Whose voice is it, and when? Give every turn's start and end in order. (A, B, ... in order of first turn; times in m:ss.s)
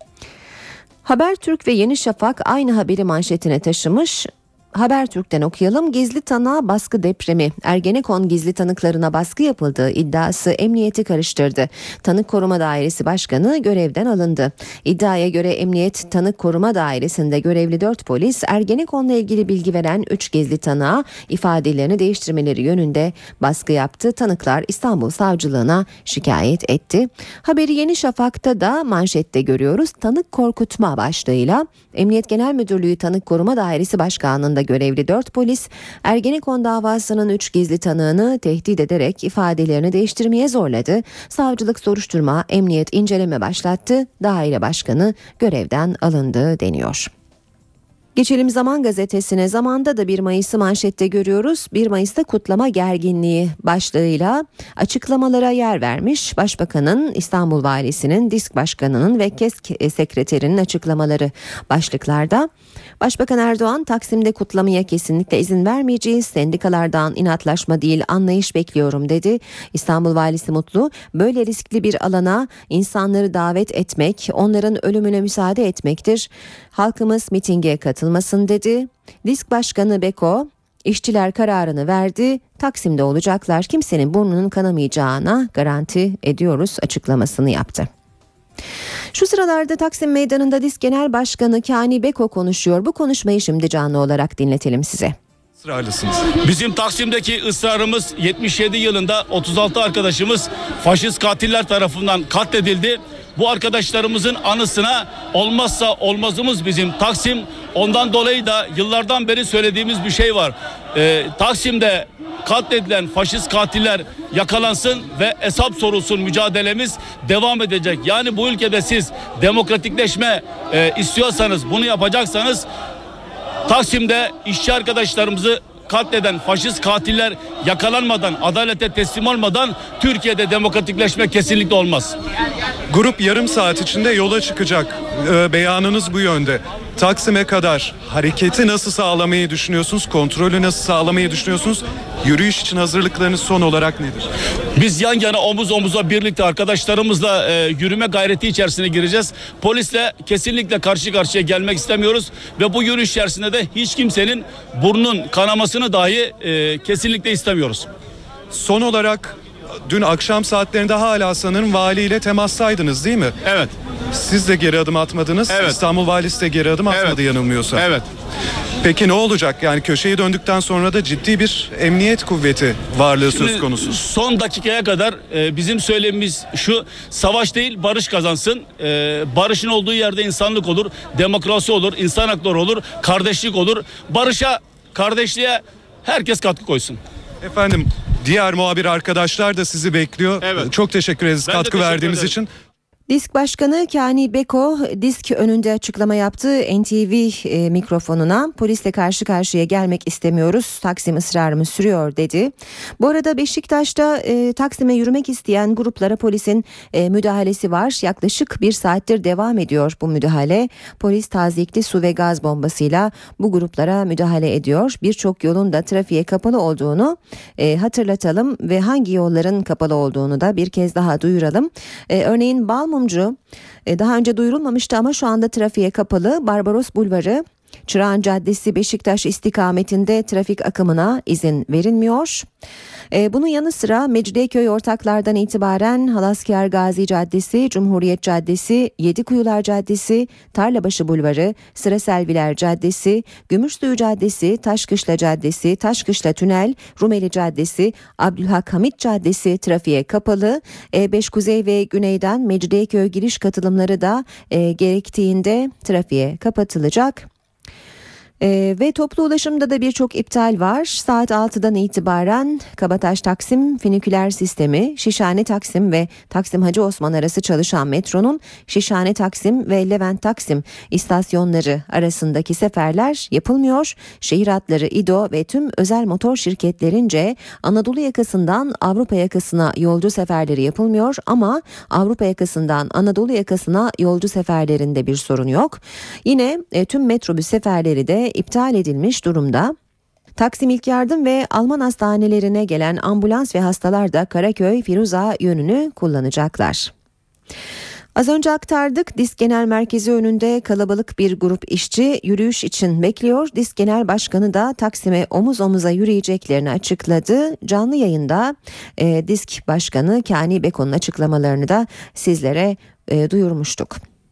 0:01.0-0:47.1 A
0:48.2-1:27.9 A
1:29.1-1:35.2 A
1:35.6-1:36.3 B
1:36.4-2:02.6 C
2:03.7-2:12.2 C
2:12.9-2:24.3 B
2:24.8-2:37.9 C
2:38.5-2:43.4 B
2:43.4-2:43.7 C
2:44.1-2:48.0 B
2:45.5-2:45.8 C
2:46.9-2:47.2 C
2:47.7-2:48.0 C
2:48.8-2:54.0 B
2:53.2-3:07.0 C
3:07.4-3:12.5 B
3:10.4-3:10.7 C
3:11.4-3:12.4 C
3:13.1-3:52.5 A
3:53.1-4:17.3 A
4:18.4-4:49.8 A
4:50.4-4:56.9 A
4:58.2-5:14.0 A